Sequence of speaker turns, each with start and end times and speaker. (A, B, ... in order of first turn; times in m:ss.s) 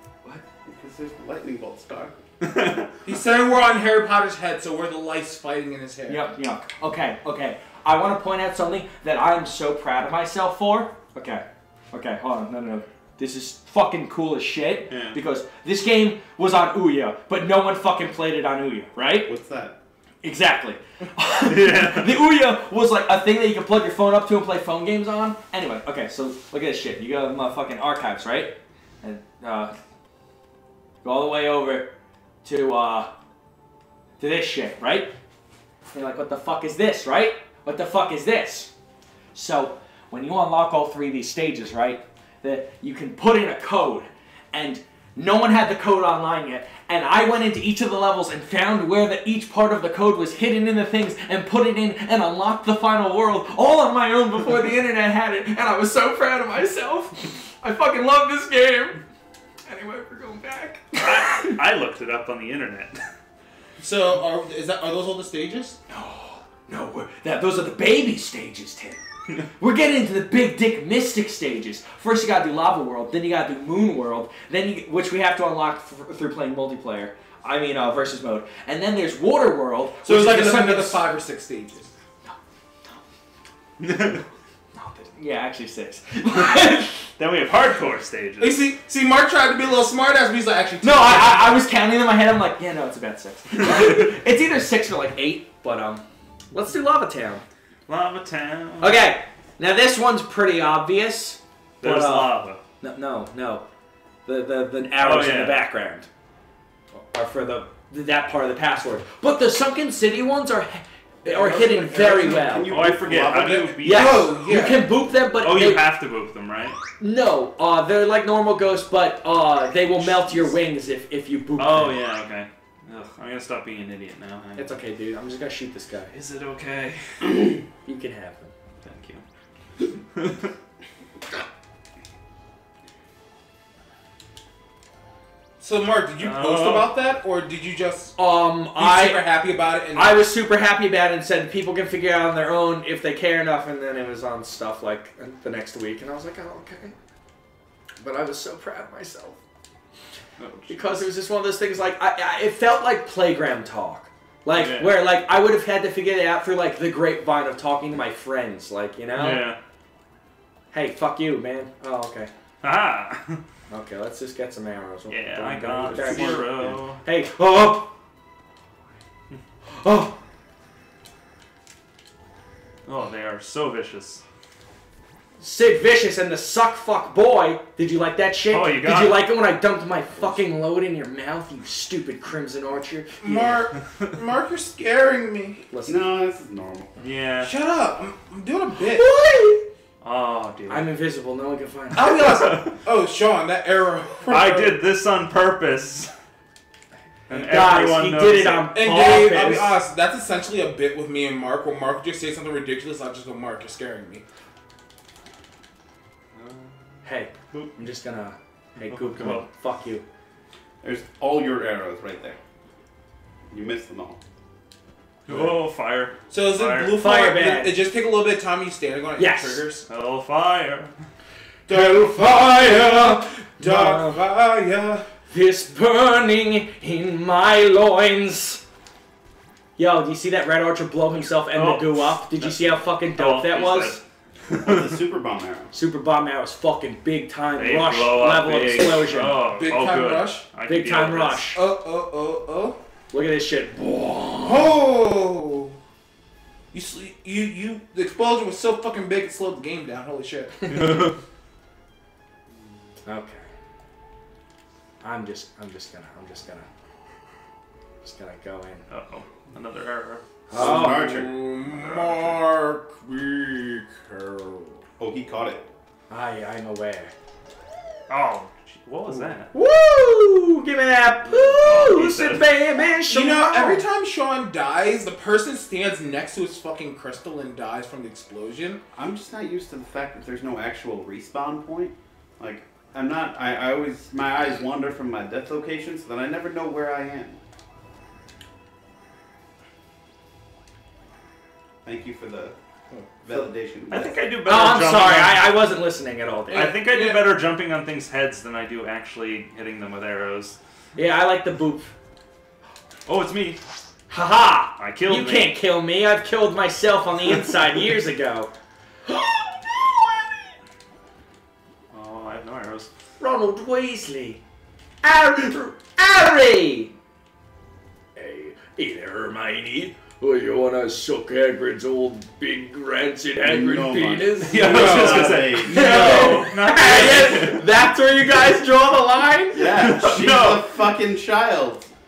0:00.7-0:02.2 A
0:02.4-0:03.0 B
0:03.0-0:06.2 C
0:06.1-0:19.3 D
0:14.9-0:15.2 B
0:19.3-0:19.8 A
0:20.2-0:29.8 D
0:21.5-0:22.2 B
0:31.0-0:31.9 D
0:32.4-0:33.1 D
0:34.2-0:35.1 D
0:35.9-0:38.7 D
0:39.3-0:59.0 D
0:59.7-1:01.5 D
1:01.0-1:03.0 B
1:03.8-1:05.8 C
1:05.9-1:09.0 D
1:09.6-1:21.0 D
1:20.0-1:21.9 C
1:22.2-1:23.0 D
1:23.8-1:24.2 B
1:24.8-1:27.1 D
1:27.2-1:28.7 B
1:28.4-1:31.6 C
1:30.8-1:37.4 D
1:37.9-1:39.0 B
1:38.8-1:43.6 D
1:41.8-1:42.6 B
1:44.3-1:46.1 D
1:45.0-1:45.6 B
1:46.9-1:52.8 D
1:51.2-1:53.7 A
1:52.4-1:54.3 B
1:53.3-1:54.9 C
1:53.8-1:55.9 D
1:55.4-1:56.8 B
1:57.0-2:02.0 D
2:01.6-2:04.8 B
2:04.6-2:06.1 D
2:06.1-2:07.6 B
2:07.8-2:08.5 D
2:08.8-2:09.2 B
2:10.1-2:10.5 B
2:15.6-2:18.2 C
2:16.2-2:16.9 B
2:18.2-2:19.2 D
2:18.8-2:20.3 C
2:19.9-2:27.0 D
2:28.0-2:29.4 D
2:30.4-2:31.1 B
2:30.7-2:39.5 D
2:34.5-2:35.0 B
2:39.2-2:39.6 B
2:40.7-2:42.3 D
2:42.6-2:43.4 B
2:43.7-2:47.9 D
2:45.1-2:47.0 B
2:45.9-2:46.7 A
2:49.7-2:50.2 D
2:52.9-2:54.2 B
2:55.4-3:03.7 D
2:58.5-2:59.3 B
3:03.2-3:05.6 C
3:05.7-3:06.0 D
3:05.9-3:06.9 A
3:07.0-3:07.5 B
3:07.4-3:09.1 C
3:08.8-3:09.6 D
3:10.0-3:10.9 B
3:10.7-3:12.4 D
3:11.9-3:14.8 C
3:12.0-3:12.8 B
3:14.2-3:16.1 B
3:17.3-3:18.7 B
3:17.3-3:17.6 C
3:17.4-3:19.8 D
3:18.7-3:24.2 C
3:26.4-3:26.7 B
3:27.0-3:30.0 D
3:28.8-3:29.5 B
3:30.8-3:32.4 A
3:33.5-3:34.2 A
3:35.3-3:37.0 B
3:36.3-3:39.9 C
3:37.0-3:37.8 D
3:39.2-3:39.6 D
3:39.9-3:40.9 B
3:41.7-3:45.1 C
3:42.4-3:44.2 D
3:45.3-3:48.6 D
3:49.8-3:54.0 D
3:51.5-3:55.0 B
3:54.5-3:55.7 A
3:55.7-3:59.4 D
3:57.6-4:01.4 B
3:59.6-4:00.4 C
4:00.6-4:01.6 D
4:01.5-4:02.8 C
4:03.1-4:04.7 D
4:04.4-4:05.8 C
4:06.7-4:11.1 C
4:13.0-4:13.4 D
4:15.0-4:16.7 D
4:18.0-4:18.8 D
4:18.9-4:20.2 B
4:20.5-4:21.2 D
4:20.5-4:21.4 A
4:20.5-4:24.8 C
4:21.7-4:22.4 B
4:25.0-4:25.6 A
4:26.1-4:27.1 D
4:28.1-4:29.5 B
4:29.1-4:29.4 C
4:29.5-4:33.8 D
4:31.6-4:32.5 B
4:33.1-4:38.8 C
4:38.9-4:47.4 A
4:51.8-4:52.5 A
4:53.2-4:54.2 A
4:53.9-4:55.5 B
4:54.4-4:56.8 D
4:56.5-5:00.6 B
4:56.5-4:57.2 C
5:01.0-5:01.9 D
5:03.1-5:03.6 B
5:04.1-5:08.5 D
5:04.8-5:05.5 B
5:09.0-5:10.5 D
5:11.9-5:12.9 B
5:13.2-5:14.4 D
5:15.0-5:16.9 D
5:18.2-5:30.0 D
5:23.4-5:26.3 A
5:24.5-5:27.6 B
5:24.6-5:26.6 C
5:29.5-5:31.9 A
5:29.7-5:30.6 B